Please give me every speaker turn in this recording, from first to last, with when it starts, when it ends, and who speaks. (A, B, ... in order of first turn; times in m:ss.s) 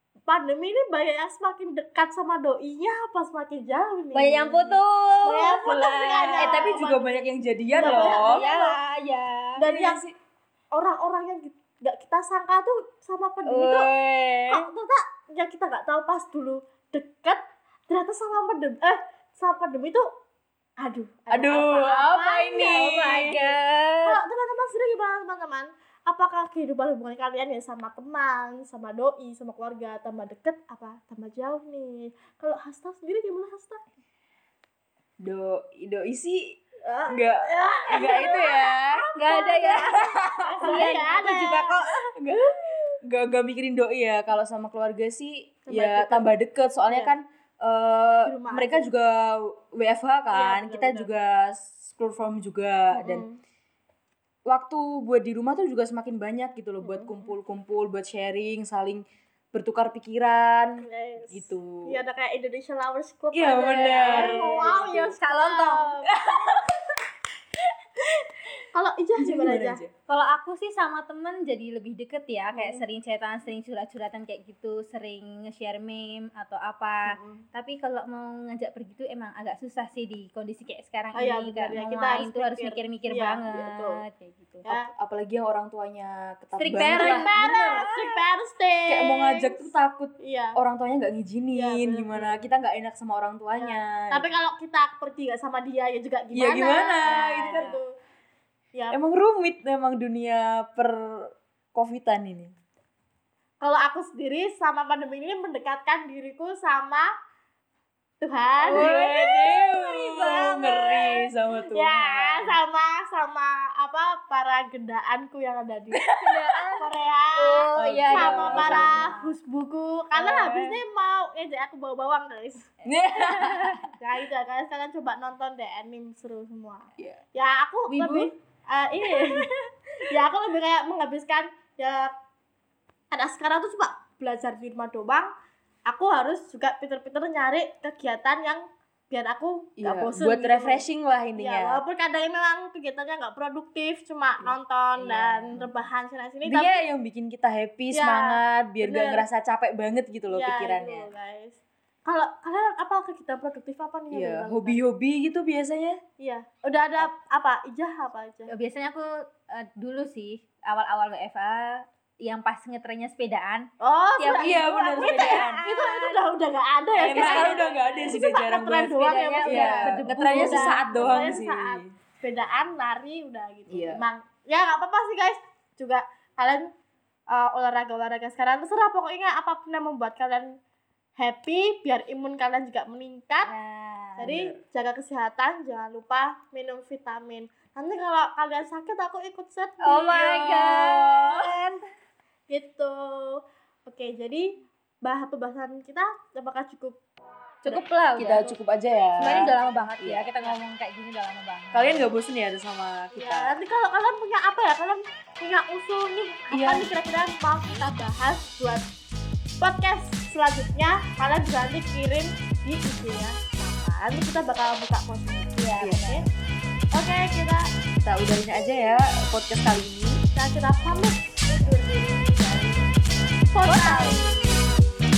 0:00.3-0:08.8 A
0:04.1-0:06.8 B
0:06.4-0:08.5 C
0:07.7-0:09.7 B
0:09.6-0:10.0 A
0:09.6-0:10.1 C
0:10.7-0:13.9 A
0:13.4-0:14.7 B
0:14.5-0:20.1 A
0:20.8-0:23.4 A
0:21.3-0:23.4 C
0:22.6-0:24.2 B
0:24.0-0:33.8 A
0:35.2-0:39.1 C
0:36.8-0:39.9 A
0:39.1-0:42.1 B
0:39.8-0:40.9 C
0:40.6-0:41.8 A
0:42.1-0:53.2 C
0:45.7-0:46.3 A
0:46.9-0:47.2 A
0:48.2-0:48.9 A
0:50.3-0:51.1 A
0:52.9-0:53.4 A
0:54.5-1:02.0 C
0:56.8-0:57.3 A
1:00.8-1:06.3 A
1:03.3-1:05.2 C
1:03.9-1:06.0 B
1:06.2-1:06.7 C
1:08.7-1:09.8 A
1:09.2-1:09.9 C
1:10.1-1:24.8 B
1:12.5-1:12.8 A
1:17.0-1:17.4 A
1:21.1-1:24.0 A
1:24.6-1:24.9 A
1:25.0-1:27.9 C
1:26.6-1:28.1 B
1:26.7-1:30.6 A
1:28.9-1:34.3 C
1:31.5-1:32.4 A
1:33.6-1:37.9 A
1:36.3-1:37.8 C
1:37.0-1:37.8 B
1:38.9-1:42.5 C
1:43.6-1:47.1 A
1:48.2-1:49.0 A
1:48.6-1:51.2 B
1:48.7-1:52.6 C
1:51.7-1:56.0 A
1:55.9-1:56.7 C
1:56.2-1:59.3 B
1:56.8-2:02.7 A
1:57.7-1:59.1 C
2:00.1-2:00.8 B
2:02.8-2:03.9 C
2:03.2-2:03.8 B
2:04.0-2:09.5 A
2:07.9-2:08.3 B
2:09.1-2:09.5 B
2:10.0-2:12.1 A
2:13.1-2:15.3 A
2:15.8-2:20.8 A
2:19.8-2:21.8 C
2:21.4-2:26.8 A
2:24.4-2:25.7 C
2:26.4-2:31.1 C
2:27.9-2:29.2 A
2:30.3-2:34.8 A
2:34.1-2:36.0 C
2:36.2-2:38.5 A
2:38.5-2:46.2 B
2:43.8-2:56.7 A
2:44.3-2:45.6 C
2:47.0-2:51.9 C
2:47.0-2:47.7 B
2:48.9-2:51.4 B
2:53.7-2:54.0 C
2:57.3-3:00.5 A
3:01.2-3:03.5 A
3:03.4-3:04.3 B
3:04.2-3:10.3 A
3:04.3-3:04.6 C
3:09.8-3:11.8 B
3:10.1-3:11.5 C
3:12.5-3:17.0 A
3:17.6-3:18.5 B
3:18.2-3:20.6 C
3:19.2-3:22.0 B
3:21.7-3:23.6 C
3:23.1-3:28.9 A
3:26.5-3:26.9 C
3:29.6-3:36.2 A
3:35.6-3:36.1 B
3:35.8-3:36.2 C
3:36.9-3:37.6 A
3:38.0-3:40.2 C
3:40.3-3:42.9 A
3:43.5-3:44.6 A
3:43.6-3:44.6 B